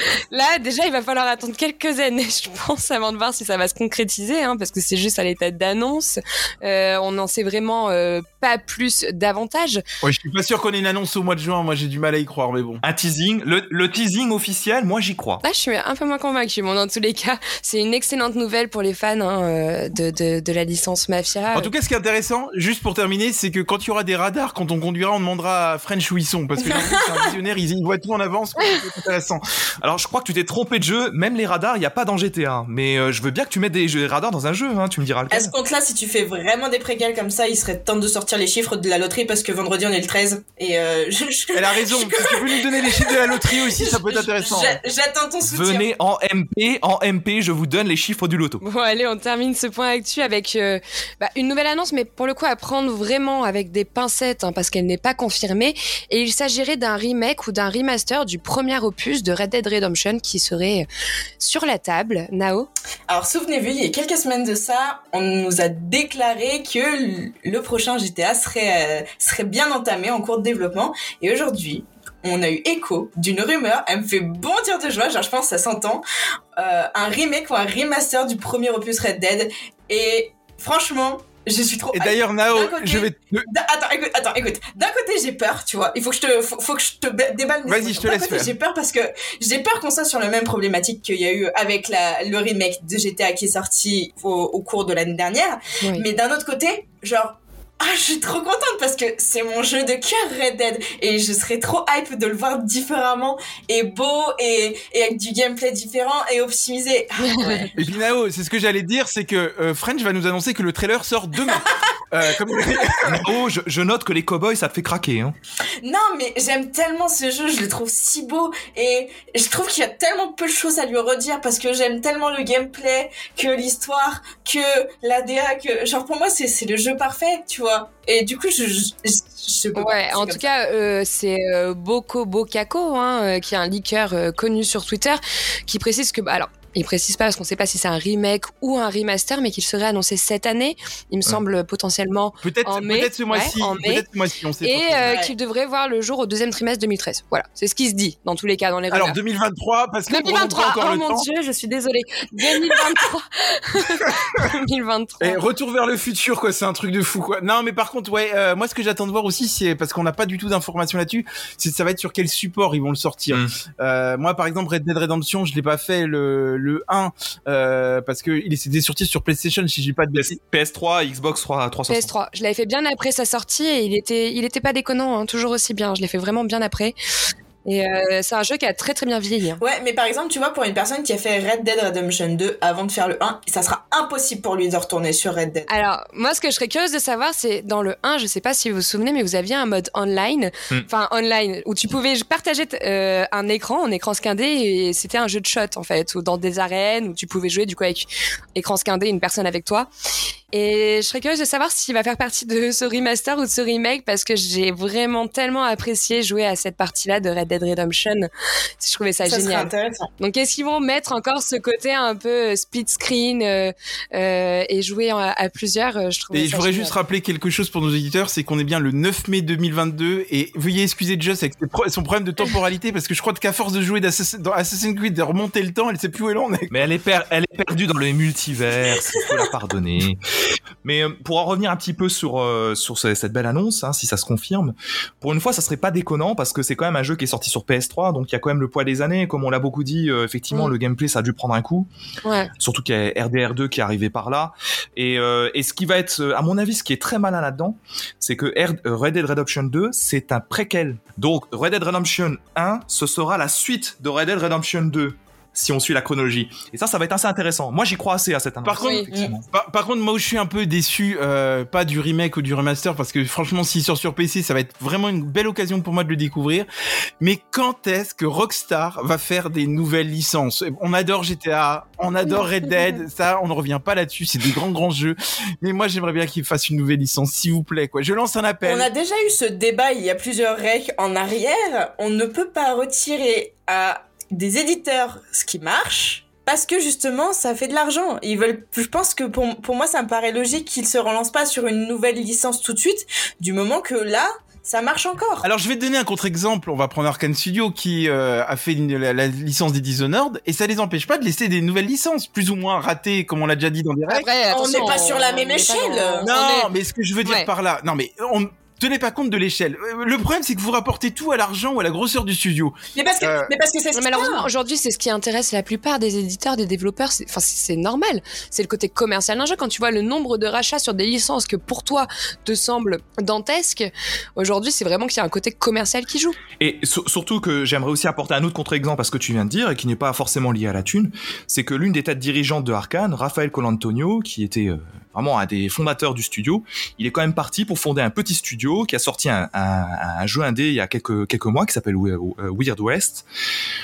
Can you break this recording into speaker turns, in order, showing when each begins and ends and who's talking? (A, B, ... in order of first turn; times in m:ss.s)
0:00.3-0:09.8 A
0:10.0-0:12.8 B
0:12.8-0:15.4 C
0:15.4-0:21.7 A
0:21.5-0:29.4 B
0:26.6-0:27.3 D
0:29.8-0:35.5 C
0:35.3-0:45.9 D
0:41.5-0:44.8 B
0:45.4-0:48.6 C
0:48.6-1:00.9 A
1:01.4-1:02.7 A
1:03.1-1:16.0 D
1:16.6-1:47.9 D
1:21.9-1:23.4 B
1:27.7-1:28.5 B
1:47.2-1:47.7 A
1:47.7-1:53.3 B
1:53.1-1:55.4 C
1:55.8-2:10.4 D
2:09.8-2:24.0 A
2:22.4-2:25.2 B
2:24.6-2:29.2 A
2:25.0-2:25.3 D
2:28.9-2:31.2 B
2:30.1-2:35.4 A
2:35.2-2:50.4 B
2:50.2-2:52.2 C
2:51.9-2:57.0 A
2:57.6-2:59.6 A
2:59.6-3:05.7 D
3:05.7-3:19.9 A
3:20.5-3:28.3 A
3:28.8-3:36.9 A
3:29.3-3:30.1 D
3:36.3-3:46.7 B
3:46.7-3:50.2 C
3:50.8-4:01.9 C
4:02.2-4:02.5 A
4:02.6-4:19.4 C
4:18.6-4:26.7 B
4:18.8-4:19.1 A
4:18.8-4:19.3 D
4:27.2-4:38.9 B
4:38.6-4:55.5 D
4:55.4-5:05.0 B
5:04.1-5:06.7 A
5:04.5-5:06.3 D
5:06.2-5:13.5 B
5:07.2-5:07.5 A
5:13.0-5:14.5 D
5:13.9-5:26.4 A
5:26.6-5:43.2 C